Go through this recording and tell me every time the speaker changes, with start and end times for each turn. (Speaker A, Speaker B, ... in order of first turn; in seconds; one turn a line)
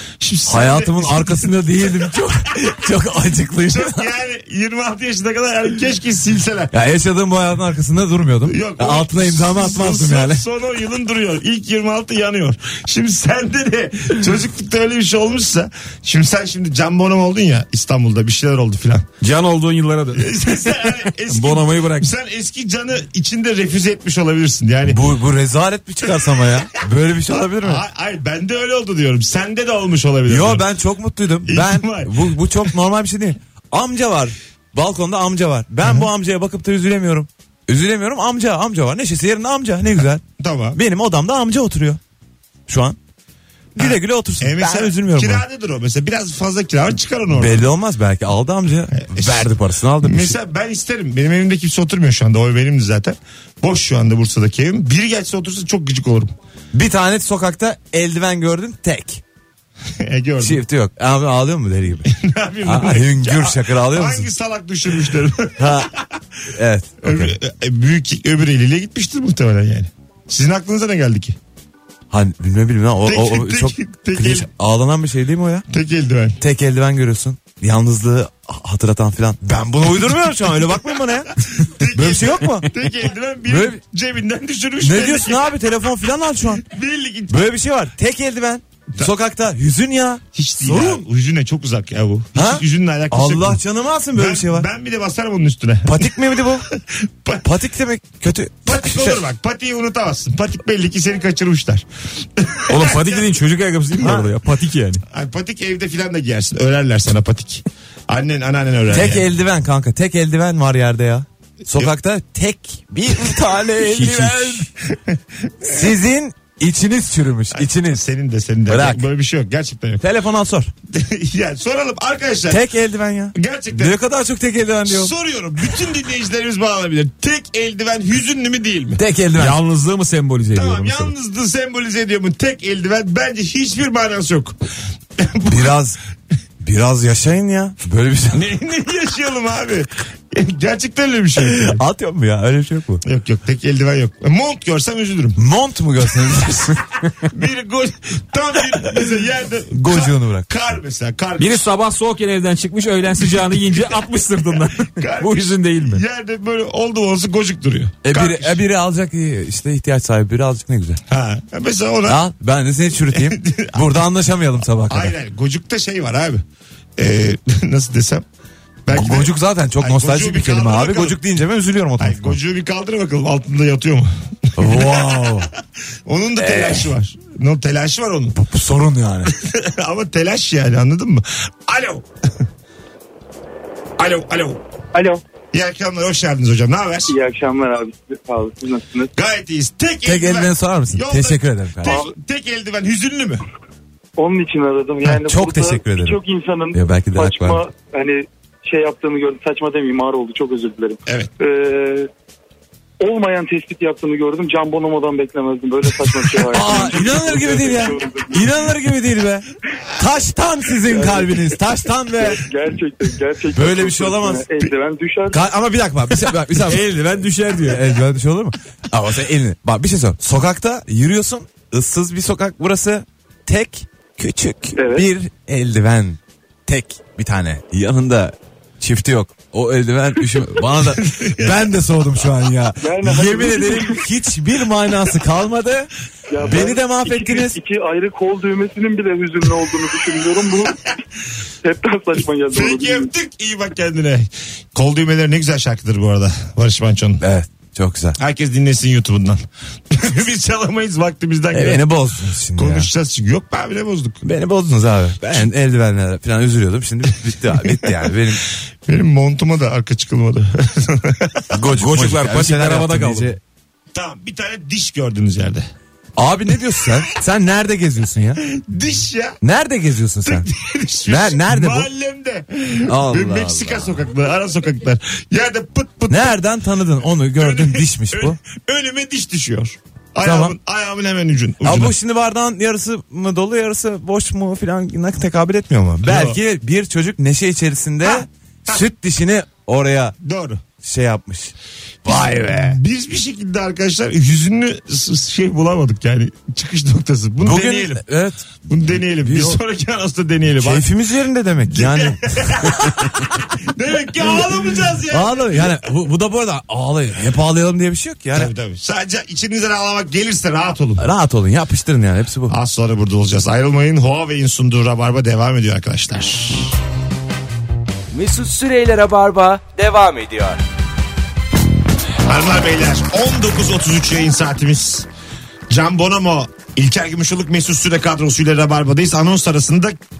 Speaker A: 0.2-2.1
Speaker B: 0.5-4.1
Speaker A: 3.7-6.7
Speaker B: 6.7-10.4
Speaker A: 8.5-19.1
Speaker C: 19.2-22.1
Speaker A: 20.1-25.0
Speaker B: 24.8-27.8
Speaker A: 27.3-30.6
Speaker B: 30.3-40.2
Speaker A: 31.4-32.7
Speaker A: 40.4-40.8
Speaker B: 40.7-42.0
Speaker B: 42.7-43.0
Speaker A: 43.8-47.7
Speaker B: 43.8-45.4
Speaker B: 47.3-50.4
Speaker A: 48.9-56.3
Speaker B: 56.7-59.2
Speaker A: 60.0-60.6
Speaker B: 60.4-62.1
Speaker A: 62.0-66.2
Speaker B: 62.6-64.3
Speaker B: 65.6-65.9
Speaker B: 66.5-67.3
Speaker A: 67.0-71.4
Speaker B: 72.1-75.7
Speaker A: 73.0-74.5
Speaker A: 75.7-76.4
Speaker B: 76.4-82.7
Speaker A: 80.0-80.7
Speaker A: 81.5-85.5
Speaker B: 83.5-83.8
Speaker B: 84.8-86.7
Speaker A: 86.5-87.5
Speaker B: 87.3-91.0
Speaker A: 90.3-93.6
Speaker B: 92.3-94.7
Speaker A: 94.1-97.4
Speaker B: 95.8-96.7
Speaker B: 97.4-99.2
Speaker A: 98.7-101.8
Speaker A: 102.4-103.3
Speaker C: 102.7-105.0
Speaker B: 104.0-104.3
Speaker A: 105.1-109.3
Speaker B: 108.9-114.7
Speaker C: 113.8-114.6
Speaker A: 114.9-115.9
Speaker B: 115.6-118.0
Speaker A: 117.5-120.0
Speaker B: 118.7-119.1
Speaker B: 120.0-120.7
Speaker A: 120.9-122.7
Speaker B: 122.5-125.1
Speaker A: 123.3-124.0
Speaker A: 124.8-129.0
Speaker B: 128.9-129.6
Speaker C: 129.3-131.1
Speaker A: 130.5-134.6
Speaker A: 135.2-135.8
Speaker B: 135.4-136.0
Speaker B: 136.6-138.5
Speaker A: 138.3-141.8
Speaker B: 141.4-143.0
Speaker A: 143.0-145.4
Speaker B: 145.3-147.0
Speaker A: 147.3-151.7
Speaker B: 149.7-150.5
Speaker C: 151.4-156.0
Speaker A: 154.9-158.6
Speaker B: 158.0-161.0
Speaker A: 161.1-162.2
Speaker B: 162.1-165.1
Speaker A: 163.1-164.0
Speaker A: 164.9-166.4
Speaker A: 167.0-168.2
Speaker A: 168.8-171.2
Speaker B: 168.9-172.4
Speaker A: 172.0-175.5
Speaker B: 174.6-175.5
Speaker A: 176.1-178.4
Speaker B: 176.4-176.9
Speaker B: 178.3-179.3
Speaker A: 179.2-182.1
Speaker A: 184.0-184.6
Speaker D: 184.9-185.2
Speaker A: 185.5-187.2
Speaker D: 187.1-189.1
Speaker A: 189.1-193.4
Speaker B: 190.0-192.0
Speaker D: 191.8-192.1
Speaker D: 194.2-202.1
Speaker B: 195.1-196.2
Speaker B: 196.7-197.6
Speaker D: 203.0-208.4
Speaker B: 206.5-212.4
Speaker D: 210.9-211.6
Speaker D: 212.1-215.4
Speaker B: 213.5-214.7
Speaker B: 215.3-237.6
Speaker C: 216.6-217.9
Speaker D: 224.8-225.1
Speaker A: 230.8-231.7
Speaker D: 232.8-234.0
Speaker D: 236.3-240.9
Speaker D: 241.6-243.1
Speaker A: 242.5-247.2
Speaker B: 247.2-248.2
Speaker A: 248.2-251.8
Speaker B: 251.5-252.9
Speaker A: 252.6-254.2
Speaker B: 254.2-258.4
Speaker A: 257.5-258.2
Speaker A: 258.9-261.6
Speaker B: 261.5-263.4
Speaker C: 261.8-263.4
Speaker A: 263.9-265.6
Speaker B: 266.2-268.4
Speaker A: 266.8-267.1
Speaker A: 268.4-269.4
Speaker B: 269.4-270.5
Speaker A: 270.2-276.4
Speaker B: 271.1-271.9
Speaker B: 272.9-274.0
Speaker B: 276.1-278.4
Speaker A: 277.4-281.9
Speaker B: 280.2-280.5
Speaker B: 281.6-290.1
Speaker A: 286.0-286.4
Speaker A: 288.0-288.8
Speaker A: 290.2-290.6
Speaker B: 290.8-292.8
Speaker A: 292.1-298.0
Speaker B: 297.4-298.4
Speaker A: 298.6-300.9
Speaker B: 299.2-299.6
Speaker B: 300.5-303.1
Speaker A: 301.7-305.8
Speaker B: 305.1-308.5
Speaker A: 308.3-311.0
Speaker B: 311.0-312.5
Speaker A: 312.5-316.8
Speaker E: 318.1-320.6
Speaker A: 322.2-325.1
Speaker A: 325.7-329.9